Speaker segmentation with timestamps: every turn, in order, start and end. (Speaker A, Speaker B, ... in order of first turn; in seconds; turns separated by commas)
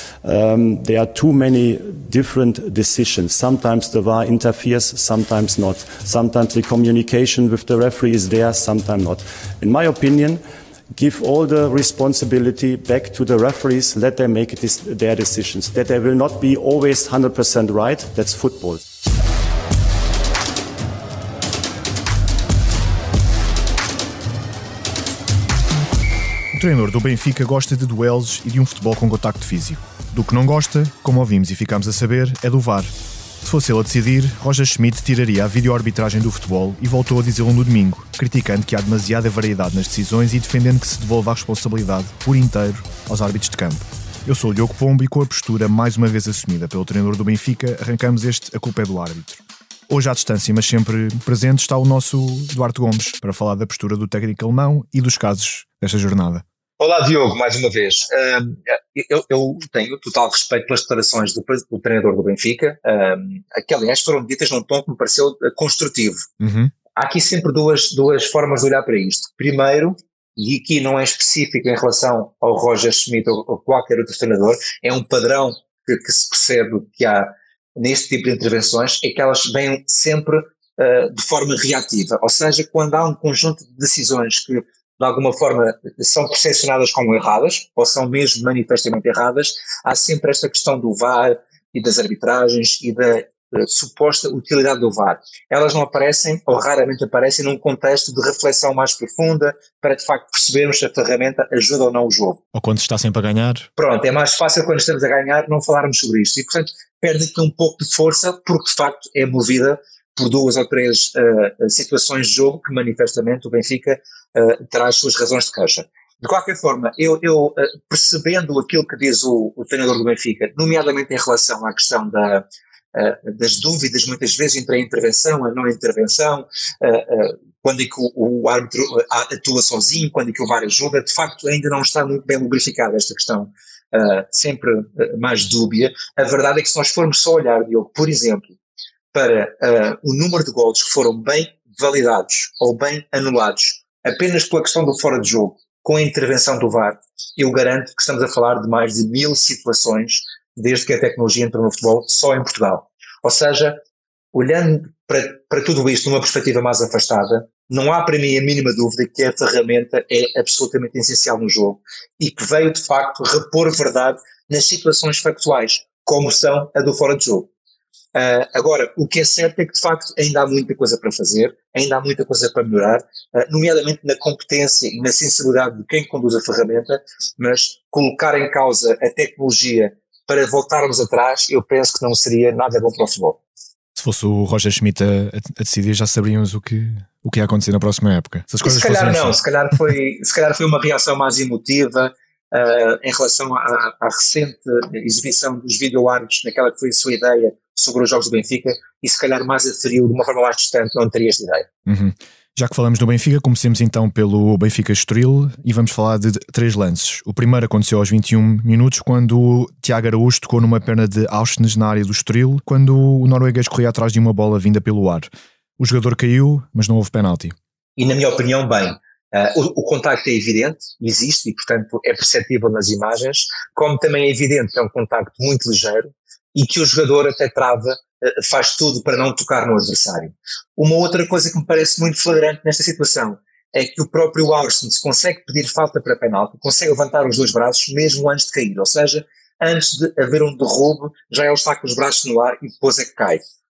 Speaker A: 0.2-10.4, Speaker A: 10.9-18.8, Speaker B: 26.5-32.9, Speaker B: 33.4-56.4, Speaker C: 56.8-66.2, Speaker B: 66.4-66.7, Speaker C: 67.0-102.4, Speaker B: 102.5-103.7, Speaker C: 103.8-138.6, Speaker C: 139.1-153.8, Speaker C: 154.3-167.5, Speaker C: 168.1-183.4, Speaker B: 183.9-189.3, Speaker C: 188.6-201.7, Speaker B: 201.8-217.5, Speaker C: 218.0-243.4